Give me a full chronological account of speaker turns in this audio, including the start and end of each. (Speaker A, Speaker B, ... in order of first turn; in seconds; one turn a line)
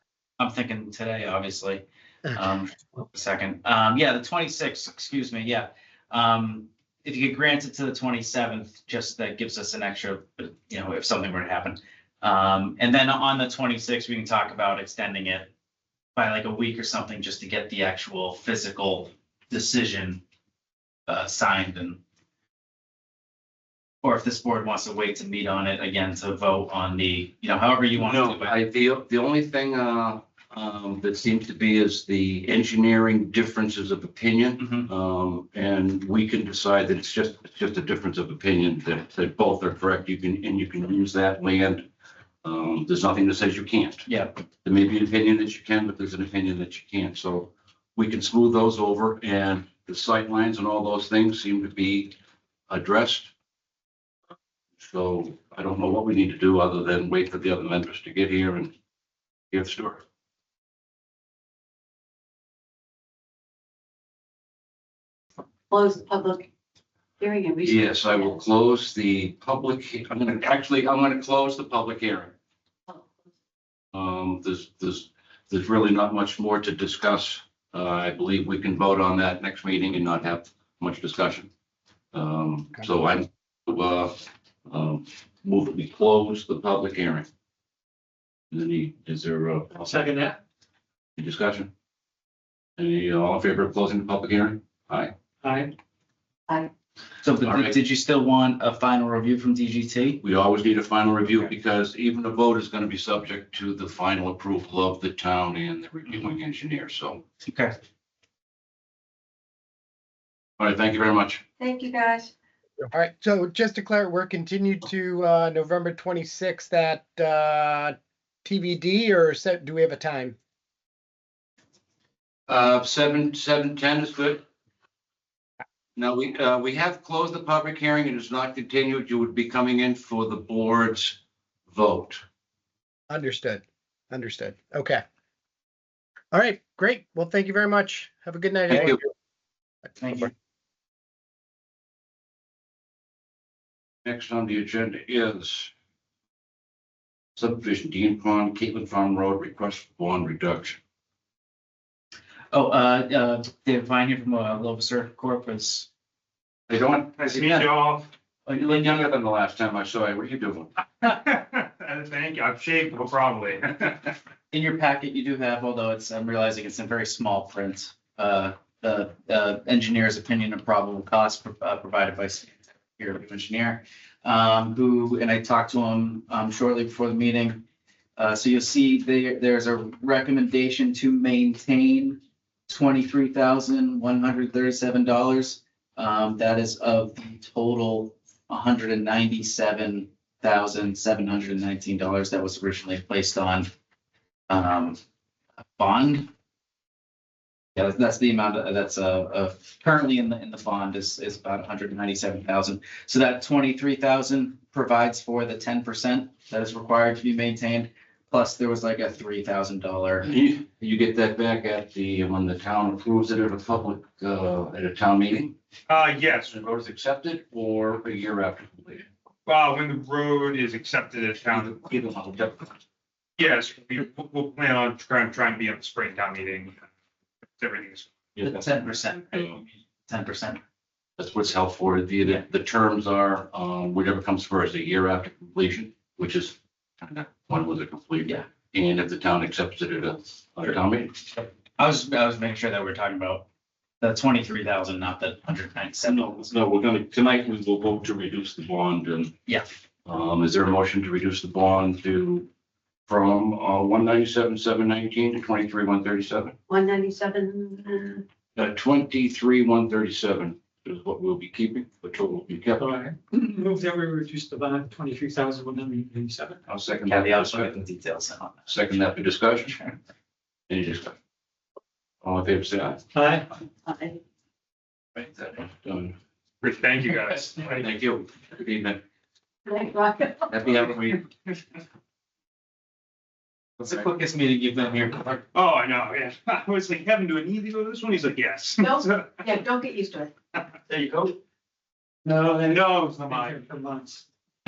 Speaker A: 0.4-15.5
Speaker A: 16.1-20.2
Speaker A: 21.1-22.0
Speaker A: 24.0-28.5
Speaker B: 28.0-41.9
Speaker A: 34.6-34.9
Speaker B: 42.4-44.1
Speaker A: 44.1-44.4
Speaker B: 44.6-52.1
Speaker B: 52.7-53.3
Speaker B: 54.8-58.7
Speaker B: 59.5-60.0
Speaker C: 65.7-66.5
Speaker C: 67.2-68.4
Speaker B: 67.6-72.3
Speaker B: 73.9-81.5
Speaker B: 82.1-87.2
Speaker B: 88.5-90.1
Speaker D: 89.8-90.4
Speaker B: 91.2-91.7
Speaker B: 92.8-95.1
Speaker D: 95.4-95.7
Speaker A: 97.2-100.2
Speaker B: 97.4-97.7
Speaker B: 100.2-107.2
Speaker A: 107.5-107.7
Speaker B: 110.6-111.4
Speaker C: 111.6-112.3
Speaker E: 112.8-120.3
Speaker B: 122.5-124.4
Speaker B: 126.0-131.2
Speaker B: 131.7-132.2
Speaker E: 133.1-135.0
Speaker E: 136.3-139.1
Speaker B: 138.7-139.0
Speaker A: 140.0-140.3
Speaker B: 144.0-145.7
Speaker B: 147.3-150.8
Speaker A: 152.5-155.9
Speaker B: 156.7-157.7
Speaker F: 157.2-158.1
Speaker A: 158.5-159.1
Speaker B: 158.5-160.7
Speaker F: 161.0-164.1
Speaker A: 164.5-177.6
Speaker A: 178.2-193.7
Speaker A: 194.5-195.0
Speaker A: 195.8-196.3
Speaker A: 197.8-210.3
Speaker B: 210.2-215.6
Speaker F: 215.9-216.6
Speaker B: 216.5-219.1
Speaker F: 219.4-222.2
Speaker B: 222.2-222.5
Speaker F: 223.4-226.8
Speaker F: 227.6-228.3
Speaker A: 228.4-230.6
Speaker B: 231.2-241.2
Speaker A: 241.8-243.4
Speaker A: 244.0-246.3
Speaker B: 246.1-249.3
Speaker B: 250.1-252.5
Speaker B: 253.1-256.6
Speaker C: 256.7-258.2
Speaker B: 258.6-262.9
Speaker D: 262.8-266.6
Speaker B: 266.7-267.8
Speaker A: 267.0-268.7
Speaker B: 268.7-269.8
Speaker B: 270.7-271.1
Speaker B: 272.2-273.0
Speaker D: 273.1-273.5
Speaker C: 273.8-274.2
Speaker B: 275.1-276.1
Speaker F: 276.6-277.9
Speaker B: 277.7-279.0
Speaker C: 279.6-280.6
Speaker B: 280.5-281.3
Speaker A: 283.8-285.4
Speaker F: 285.5-289.4
Speaker C: 288.8-290.3
Speaker F: 290.9-291.4
Speaker D: 292.2-294.2
Speaker F: 292.6-293.7